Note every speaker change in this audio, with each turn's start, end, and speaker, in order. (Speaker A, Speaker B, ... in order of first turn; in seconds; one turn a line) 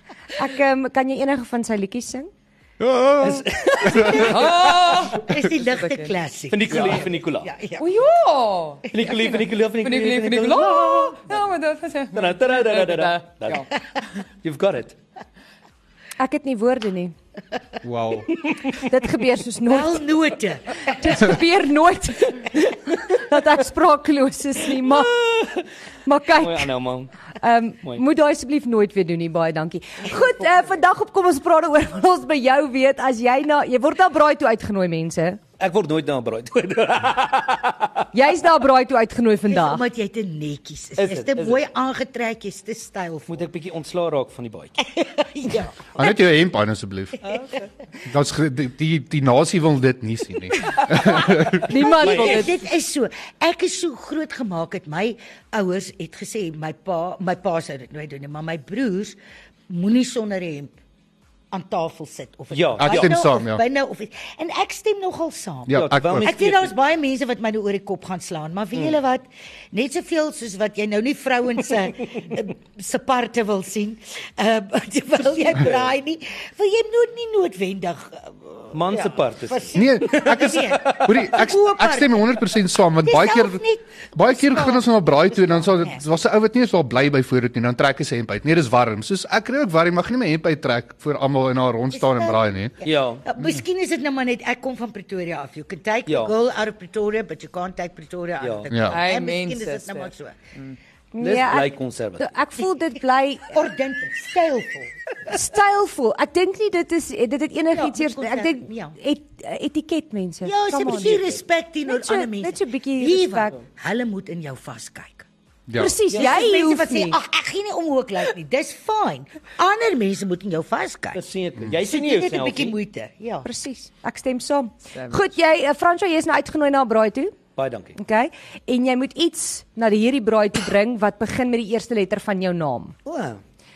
Speaker A: 0.4-2.3
Speaker B: 2.8-4.3
Speaker C: 3.2-5.1
Speaker D: 4.1-6.1
Speaker E: 5.1-7.9
Speaker C: 6.5-7.5
Speaker D: 7.8-13.7
Speaker C: 8.9-11.4
Speaker C: 12.1-13.7
Speaker C: 14.4-14.9
Speaker A: 16.2-17.1
Speaker B: 17.8-18.3
Speaker A: 18.6-20.0
Speaker E: 19.7-21.3
Speaker A: 20.9-25.2
Speaker C: 25.1-25.6
Speaker A: 26.1-26.7
Speaker C: 26.3-27.1
Speaker A: 27.4-35.4
Speaker C: 35.6-38.0
Speaker A: 38.1-39.8
Speaker E: 39.5-43.5
Speaker C: 41.0-41.6
Speaker C: 43.3-44.7
Speaker E: 45.0-46.1
Speaker B: 45.9-47.2
Speaker C: 47.2-47.6
Speaker B: 48.0-51.7
Speaker A: 51.7-52.5
Speaker E: 51.7-59.2
Speaker C: 52.0-52.6
Speaker E: 59.7-60.8
Speaker E: 61.5-82.4
Speaker C: 62.5-63.1
Speaker B: 62.8-63.6
Speaker B: 65.7-66.3
Speaker C: 65.7-66.7
Speaker C: 75.4-75.9
Speaker C: 78.7-81.1
Speaker B: 79.7-92.8
Speaker E: 83.0-86.0
Speaker E: 91.9-100.3
Speaker C: 92.8-93.2
Speaker C: 96.0-96.3
Speaker C: 98.4-98.7
Speaker B: 98.7-99.0
Speaker D: 98.9-100.8
Speaker A: 101.1-103.5
Speaker C: 101.2-102.3
Speaker E: 103.5-104.9
Speaker A: 105.3-111.3
Speaker E: 107.7-109.0
Speaker E: 110.4-115.2
Speaker A: 111.8-113.5
Speaker B: 115.7-116.0
Speaker A: 115.8-117.2
Speaker C: 116.1-116.4
Speaker E: 116.1-121.2
Speaker C: 121.1-122.8
Speaker E: 121.8-123.5
Speaker A: 123.4-127.4
Speaker D: 124.9-125.3
Speaker C: 127.5-128.0
Speaker A: 127.9-132.9
Speaker C: 133.0-133.4